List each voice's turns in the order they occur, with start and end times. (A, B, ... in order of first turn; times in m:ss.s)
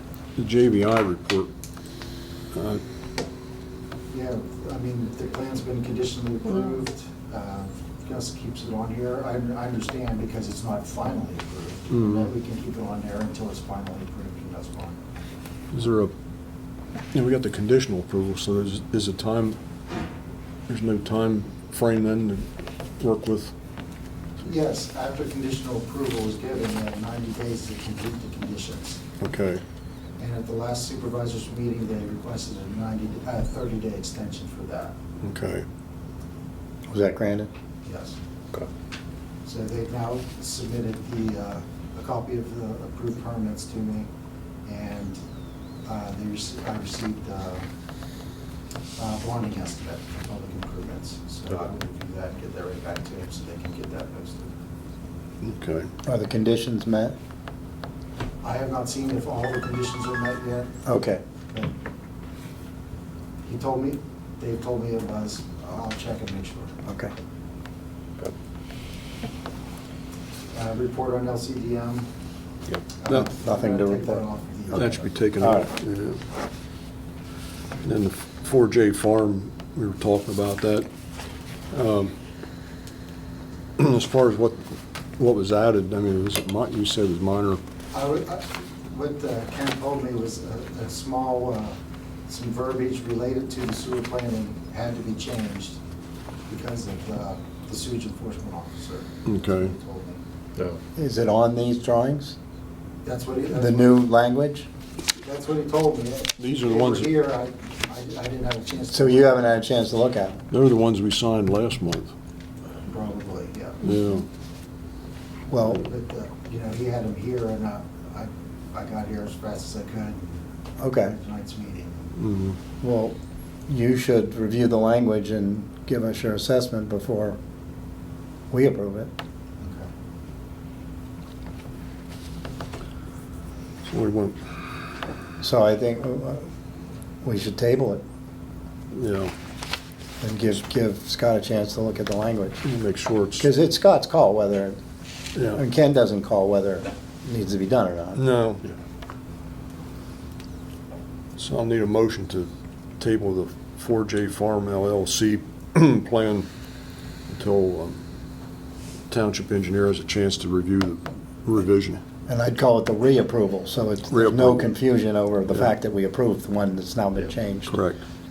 0:00.4-0:01.5 A
0:02.5-0:02.8 A
0:04.1-0:15.0 B
0:11.9-0:12.3 A
0:15.7-0:16.1 A
0:17.1-0:19.6 A
0:20.7-0:22.5 A
0:23.0-0:23.5 A
0:24.4-0:29.0 B
0:29.2-0:29.6 A
0:30.2-0:34.9 B
0:35.2-0:35.6 A
0:36.9-0:37.5 C
0:37.8-0:38.2 B
0:39.4-0:44.1 B
0:44.6-0:45.2 B
0:45.8-0:47.6 B
0:49.0-0:54.5 B
0:55.4-0:55.9 A
0:56.0-0:57.2 C
0:58.4-1:00.8 B
1:00.8-1:01.2 C
1:03.4-1:06.8 B
1:06.8-1:07.1 C
1:10.5-1:12.1 B
1:13.0-1:15.1 B
1:13.1-1:14.2 C
1:14.7-1:16.2 A
1:15.4-1:15.7 C
1:17.8-1:20.9 A
1:21.7-1:22.1 A
1:23.8-1:27.6 A
1:27.9-1:31.8 B
1:32.3-1:35.8 B
1:36.5-1:40.2 B
1:39.2-1:39.7 A
1:41.0-1:42.4 C
1:43.0-1:44.0 B
1:43.5-1:44.7 C
1:45.2-1:49.6 B
1:46.4-1:47.1 A
1:48.9-1:50.4 C
1:50.5-1:52.1 A
1:52.8-1:53.8 B
1:53.8-1:54.2 A
1:55.5-1:55.8 C
1:55.6-2:00.4 B
2:00.8-2:01.2 C
2:01.1-2:02.1 B
2:02.2-2:02.6 A
2:02.8-2:03.1 C
2:03.7-2:07.4 C
2:08.5-2:09.1 C
2:09.6-2:09.9 B
2:13.8-2:14.4 A
2:15.4-2:16.4 C
2:17.2-2:18.0 C
2:18.9-2:19.3 A
2:20.2-2:22.6 C
2:22.6-2:23.5 A
2:23.4-2:24.8 C
2:25.3-2:25.6 A
2:25.5-2:28.2 C
2:28.1-2:28.6 A
2:31.4-2:36.5 A
2:37.3-2:38.0 A
2:39.1-2:42.0 A
2:42.3-2:47.8 C
2:44.1-2:44.7 A
2:47.7-2:48.0 A